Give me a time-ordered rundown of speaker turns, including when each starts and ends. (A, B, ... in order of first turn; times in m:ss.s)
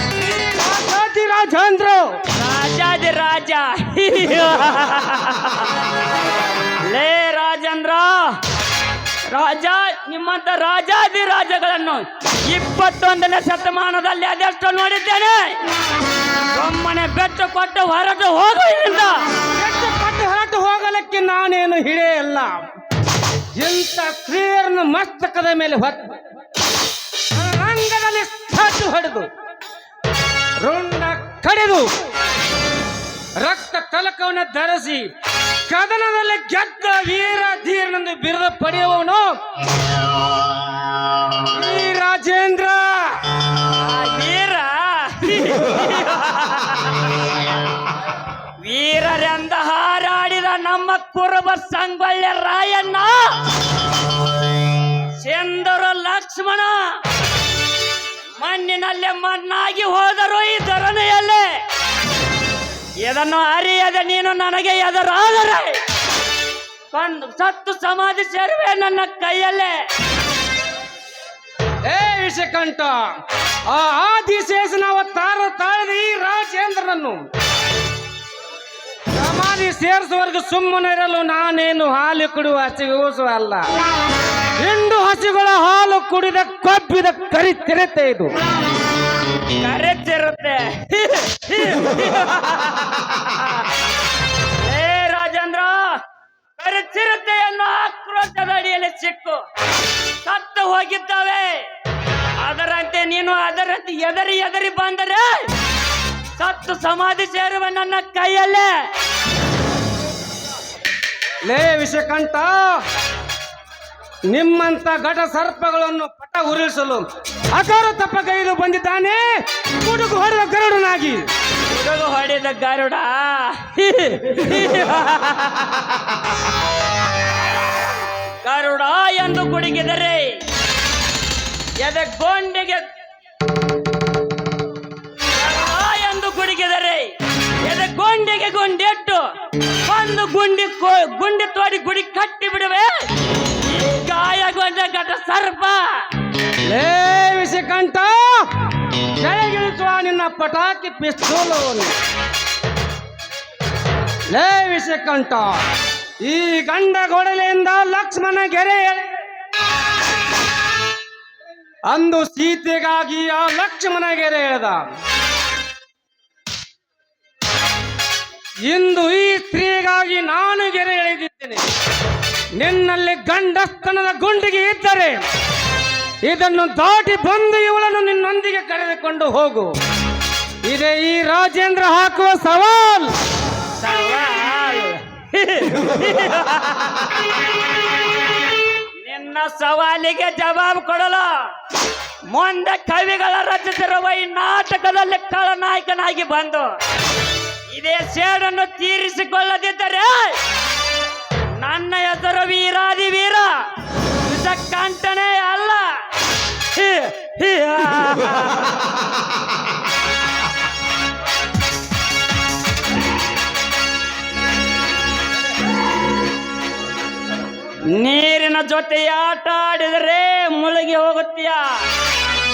0:00.2-0:02.2 A
0:02.3-0:05.7 B
0:06.8-0:08.4 B
0:09.3-0:15.6 B
0:16.5-0:19.2 B
0:19.5-0:22.6 A
0:23.5-0:26.1 A
0:27.3-0:29.3 A
0:30.6-0:31.9 A
0:33.4-0:35.1 A
0:35.7-0:39.4 A
0:41.5-0:43.2 A
0:43.8-0:47.0 B
0:48.6-0:53.4 B
0:55.2-0:57.0 B
0:58.4-1:01.6 B
1:03.0-1:05.8 B
1:06.9-1:09.9 B
1:11.8-1:13.1 A
1:13.7-1:17.2 A
1:19.1-1:23.6 A
1:24.6-1:28.3 A
1:29.6-1:33.7 B
1:34.6-1:36.0 B
1:36.6-1:39.4 B
1:40.2-1:41.7 B
1:42.4-1:45.5 B
1:46.4-1:48.9 B
1:51.4-1:52.8 A
1:54.3-2:01.3 A
2:01.7-2:06.2 B
2:08.4-2:10.4 B
2:11.8-2:12.8 B
2:15.4-2:17.1 B
2:17.6-2:19.2 B
2:19.8-2:23.1 B
2:23.6-2:25.9 B
2:26.7-2:28.4 A
2:29.2-2:31.9 A
2:34.3-2:35.6 A
2:36.2-2:39.1 A
2:41.9-2:44.8 A
2:48.6-2:51.6 A
2:52.6-2:55.2 A
2:56.2-2:59.7 A
3:00.6-3:03.1 A
3:03.8-3:07.2 B
3:09.0-3:11.5 B
3:12.3-3:16.8 B
3:17.7-3:20.4 B
3:21.6-3:23.6 B
3:24.2-3:26.0 B
3:26.7-3:28.8 B
3:37.9-3:41.8 B